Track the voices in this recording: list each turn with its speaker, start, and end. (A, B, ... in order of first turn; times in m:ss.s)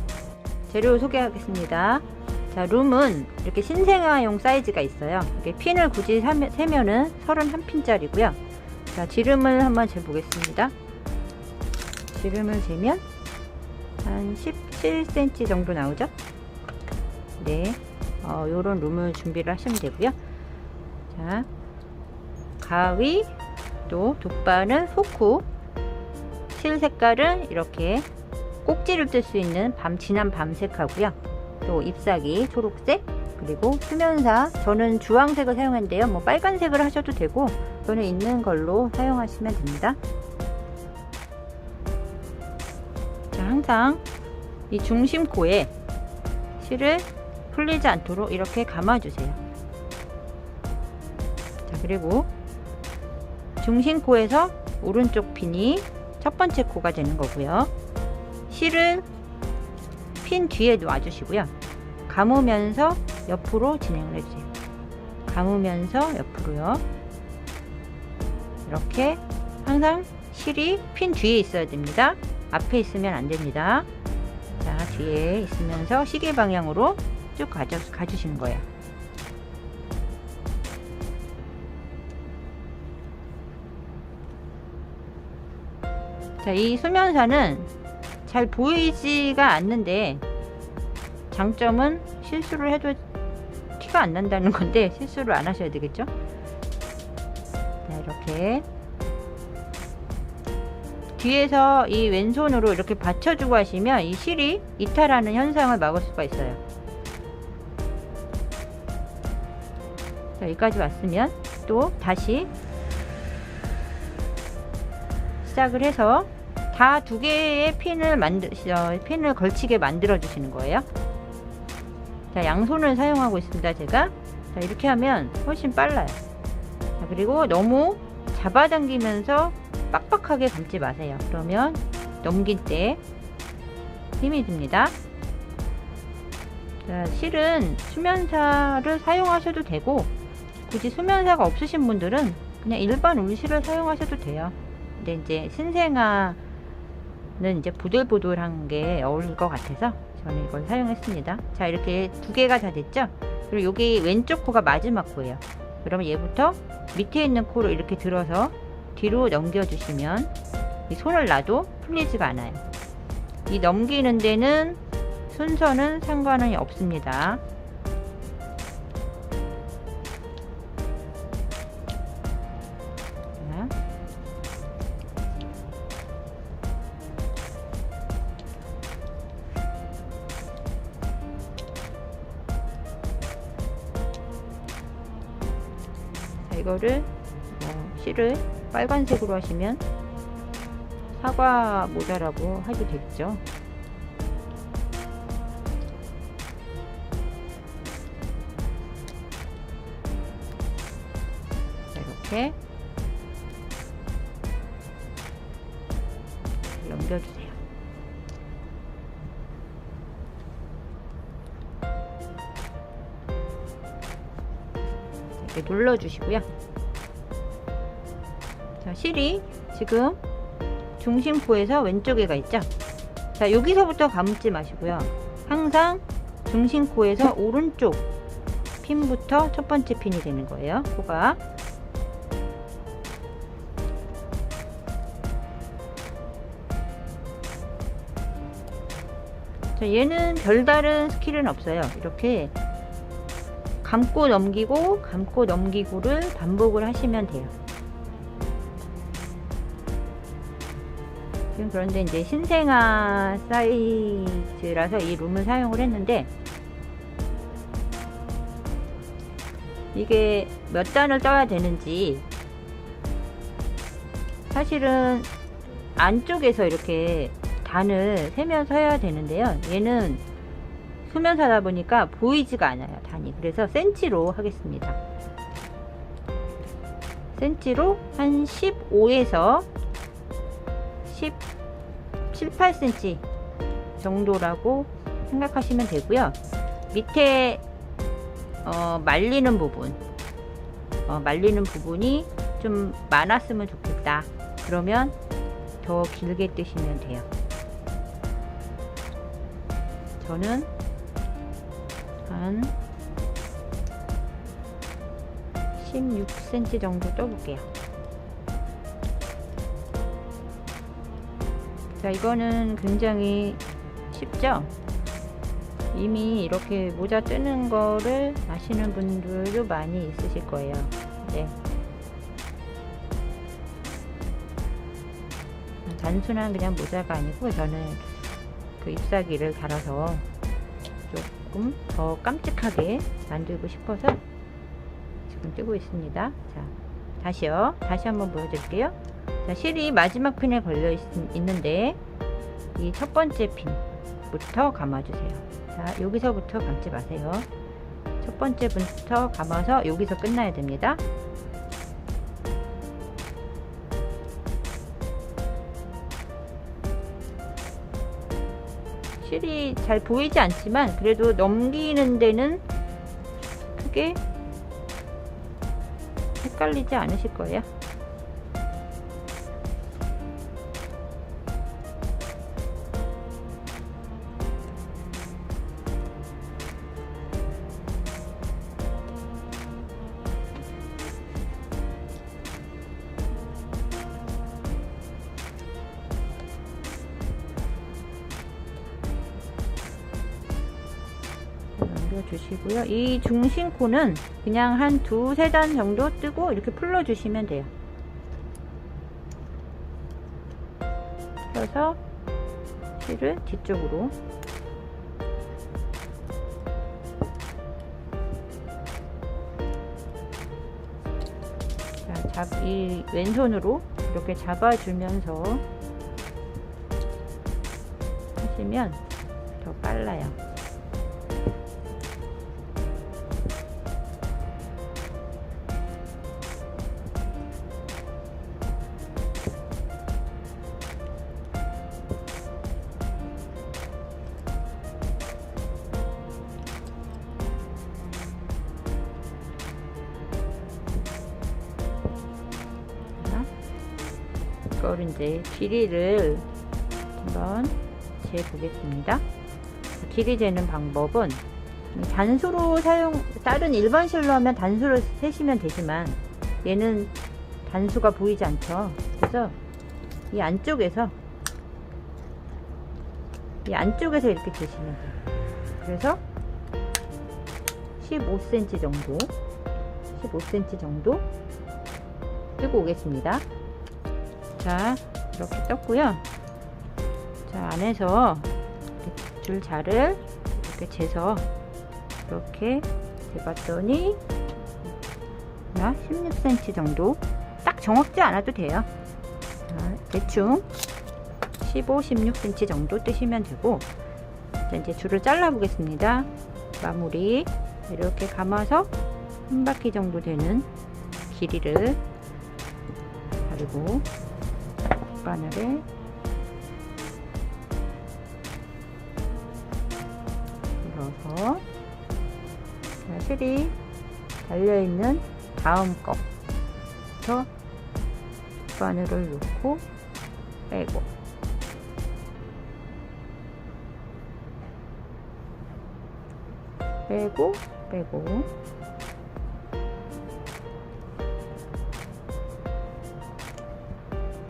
0:00.7-0:08.4 A
0:08.9-0:10.7 A
0:12.1-0:13.0 A
0:14.0-0:16.1 A
0:17.4-0:20.2 A
0:21.1-0:21.5 A
0:22.6-0:23.3 A
0:23.9-0:25.5 A
0:26.5-0:28.1 A
0:28.6-0:40.0 A
0:43.3-0:44.0 A
0:44.7-0:45.7 A
0:46.6-0:49.4 A
0:51.7-0:52.3 A
0:53.6-0:57.7 A
0:58.5-0:59.1 A
1:00.2-1:01.5 A
1:02.1-1:04.5 A
1:05.3-1:06.8 A
1:08.7-1:13.9 A
1:14.6-1:18.7 A
1:26.4-1:27.7 A
1:28.3-1:30.2 A
1:31.3-1:33.0 A
1:33.8-1:36.1 A
1:37.8-1:38.7 A
1:41.2-1:46.6 A
1:50.4-1:52.5 A
1:55.4-2:00.8 A
2:02.3-2:06.2 A
2:07.0-2:13.0 A
2:14.2-2:15.0 A
2:16.9-2:20.1 A
2:20.7-2:26.4 A
2:27.4-2:40.3 A
2:40.9-2:42.6 A
2:43.5-2:47.4 A
2:53.4-2:53.7 A
3:06.5-3:09.8 A
3:11.2-3:13.4 A
3:21.9-3:22.6 A
3:26.8-3:27.6 A
3:35.4-3:36.5 A
3:38.8-3:40.2 A
3:41.0-3:42.7 A
3:43.4-3:48.1 A
3:48.8-3:51.4 A
3:59.8-4:02.5 A
4:03.8-4:07.5 A
4:11.5-4:16.3 A
4:19.9-4:22.2 A
4:24.5-4:25.3 A
4:26.0-4:30.2 A
4:31.1-4:35.0 A
4:37.4-4:39.7 A
4:41.0-4:41.4 A
4:42.3-4:43.2 A
4:44.0-4:46.4 A
4:46.9-4:47.6 A
4:48.6-4:50.0 A
4:51.1-4:55.2 A
4:55.8-4:57.3 A
5:00.2-5:00.7 A
5:02.3-5:02.7 A
5:05.8-5:07.7 A
5:12.0-5:14.7 A
5:15.9-5:21.6 A
5:25.9-5:28.2 A
5:28.8-5:30.2 A
5:31.1-5:34.2 A
5:35.3-5:42.0 A
5:42.8-5:47.5 A
5:48.2-5:51.0 A
5:59.2-6:02.6 A
6:03.8-6:04.2 A
6:06.4-6:07.7 A
6:31.8-6:37.7 A
6:41.5-6:42.0 A
6:43.0-6:44.1 A
6:52.0-6:55.6 A
6:58.4-6:59.0 A
6:59.6-7:00.4 A
7:23.2-7:23.5 A
7:24.8-7:26.5 A
7:27.2-7:29.2 A
7:30.0-7:31.4 A
7:31.9-7:37.1 A
7:37.7-7:39.6 A
7:40.3-7:41.1 A
7:43.6-7:45.2 A
7:45.8-7:46.2 A
7:48.0-7:49.3 A
7:50.2-7:51.2 A
7:52.6-7:53.4 A
7:54.6-7:56.2 A
7:57.5-7:58.5 A
7:59.0-8:01.5 A
8:02.3-8:04.2 A
8:05.7-8:08.9 A
8:09.7-8:10.7 A
8:11.6-8:13.9 A
8:14.7-8:16.3 A
8:16.8-8:18.9 A
8:19.5-8:20.7 A
8:21.3-8:22.0 A
8:23.4-8:24.0 A
8:25.1-8:25.9 A
8:30.8-8:31.6 A
8:33.1-8:33.8 A
8:34.4-8:36.2 A
8:37.2-8:37.5 A
8:38.7-8:39.8 A
8:40.7-8:41.1 A
8:47.1-8:48.5 A